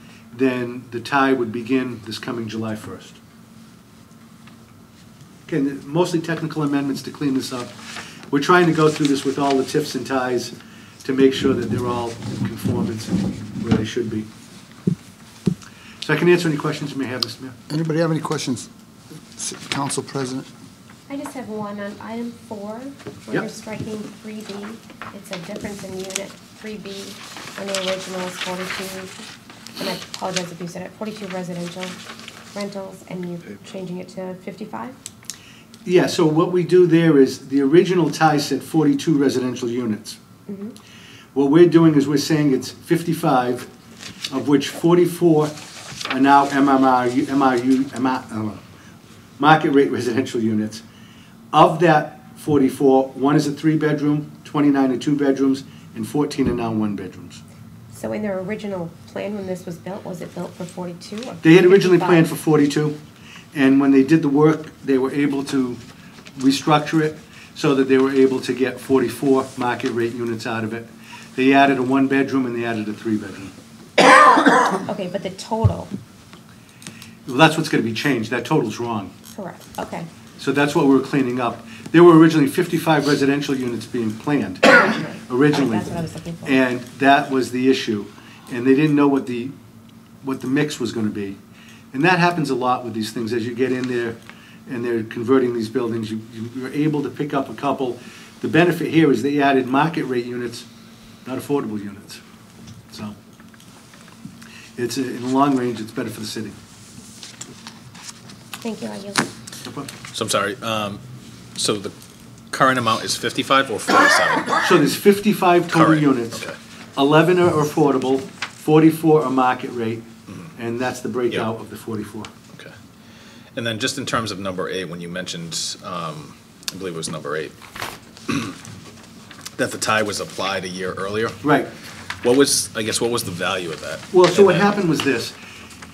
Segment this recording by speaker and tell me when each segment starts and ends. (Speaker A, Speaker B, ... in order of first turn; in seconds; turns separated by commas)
Speaker A: 0.3-3.2, Speaker A: 5.5-7.7, Speaker A: 8.3-14.3, Speaker A: 16.0-17.6, Speaker B: 17.7-18.7, Speaker B: 19.3-20.5, Speaker C: 21.1-29.1, Speaker C: 29.8-32.0, Speaker C: 32.5-35.0, Speaker A: 35.9-40.2, Speaker C: 40.5-40.7, Speaker A: 41.3-43.7, Speaker A: 44.3-45.5, Speaker A: 46.1-48.6, Speaker A: 49.4-50.8, Speaker A: 51.5-57.4, Speaker C: 57.9-62.3, Speaker A: 61.4-63.0, Speaker A: 63.5-65.8, Speaker A: 66.4-73.5, Speaker C: 74.3-75.9, Speaker A: 77.2-79.1, Speaker C: 79.3-80.1, Speaker A: 80.4-84.7, Speaker C: 84.8-86.6, Speaker A: 85.3-89.5, Speaker A: 90.2-91.4, Speaker A: 91.9-94.2, Speaker A: 94.7-100.7, Speaker A: 101.2-102.2, Speaker A: 102.9-103.2, Speaker A: 104.8-106.5, Speaker C: 108.6-109.3, Speaker A: 109.6-109.9, Speaker D: 110.1-111.0, Speaker D: 111.5-111.9, Speaker D: 112.5-114.6, Speaker A: 114.6-122.3, Speaker D: 115.7-116.5, Speaker D: 123.5-127.5, Speaker D: 128.3-128.6, Speaker D: 129.6-131.4, Speaker A: 131.4-131.7, Speaker D: 132.2-134.7, Speaker A: 134.1-135.3